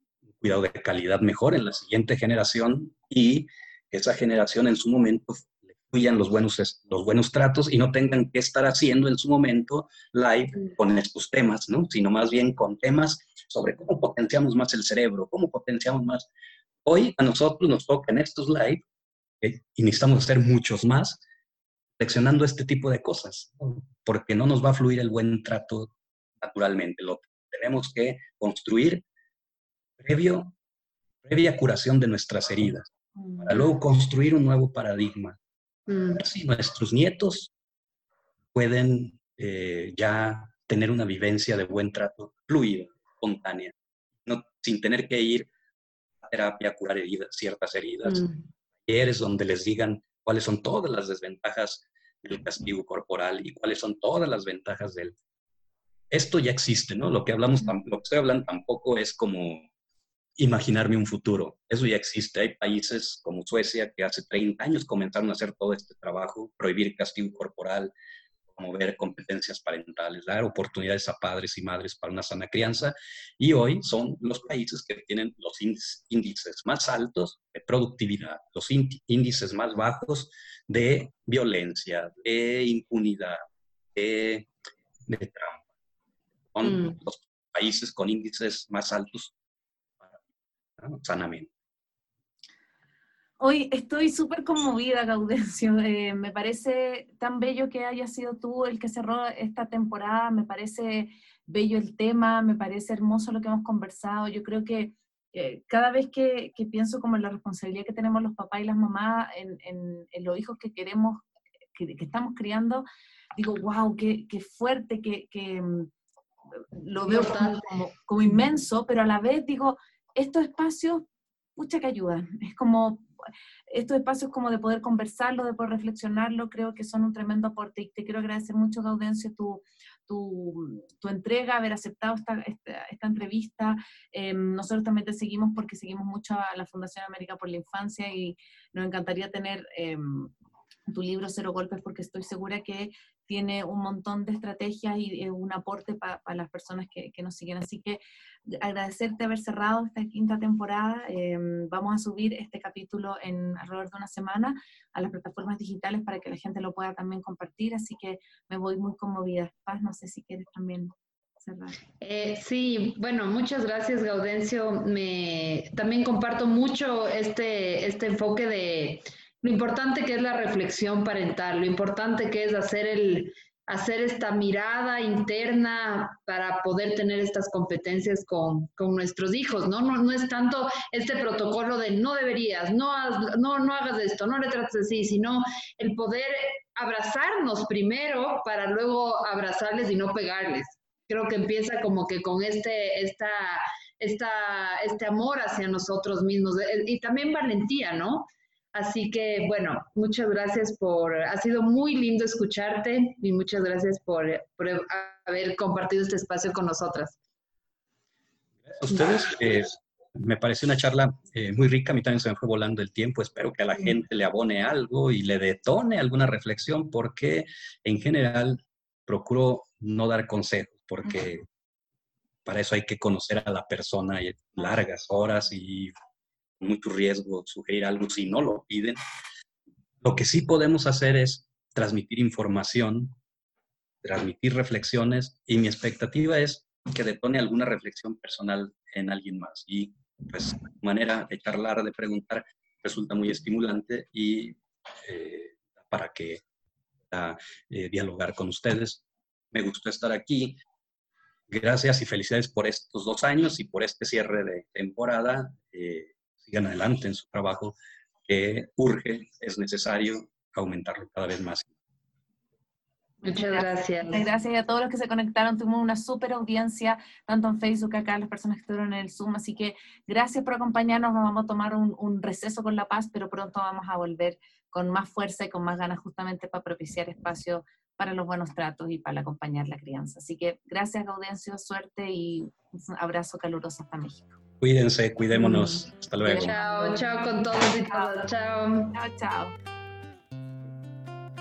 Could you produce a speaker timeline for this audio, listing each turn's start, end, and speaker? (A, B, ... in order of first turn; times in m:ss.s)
0:00.4-0:16.3 A
0:16.8-0:18.8 A
0:19.4-0:21.2 A
0:22.0-0:29.0 A
0:30.0-0:30.5 A
0:31.2-0:35.4 A
0:35.9-0:36.2 B
0:36.2-0:37.5 A
0:38.5-0:43.7 A
0:44.2-0:45.5 A
0:46.2-0:48.2 A
0:48.1-0:48.4 B
0:48.8-0:55.1 A
0:56.1-0:59.7 A
1:00.4-1:07.9 A
1:08.5-1:23.4 A
1:23.9-1:24.5 A
1:25.0-1:25.6 A
1:26.5-1:29.3 A
1:26.6-1:27.0 B
1:30.8-1:31.5 A
1:33.4-1:55.9 C
1:56.7-2:01.0 C
1:57.1-1:57.7 B
2:01.6-2:03.1 C
2:03.7-2:20.3 C
2:20.9-2:41.8 C
2:42.0-3:27.2 B
3:28.6-3:41.4 A
3:42.4-3:45.9 A
3:46.6-3:49.0 A
3:50.0-3:53.2 A
3:54.0-4:06.4 A
4:07.1-4:10.6 A
4:11.5-4:21.7 A
4:23.2-4:24.2 B
4:23.3-4:44.3 C
4:44.6-4:46.5 A
4:45.3-4:45.8 B
4:46.2-4:48.2 C
4:46.3-4:49.0 B
4:48.9-4:49.5 C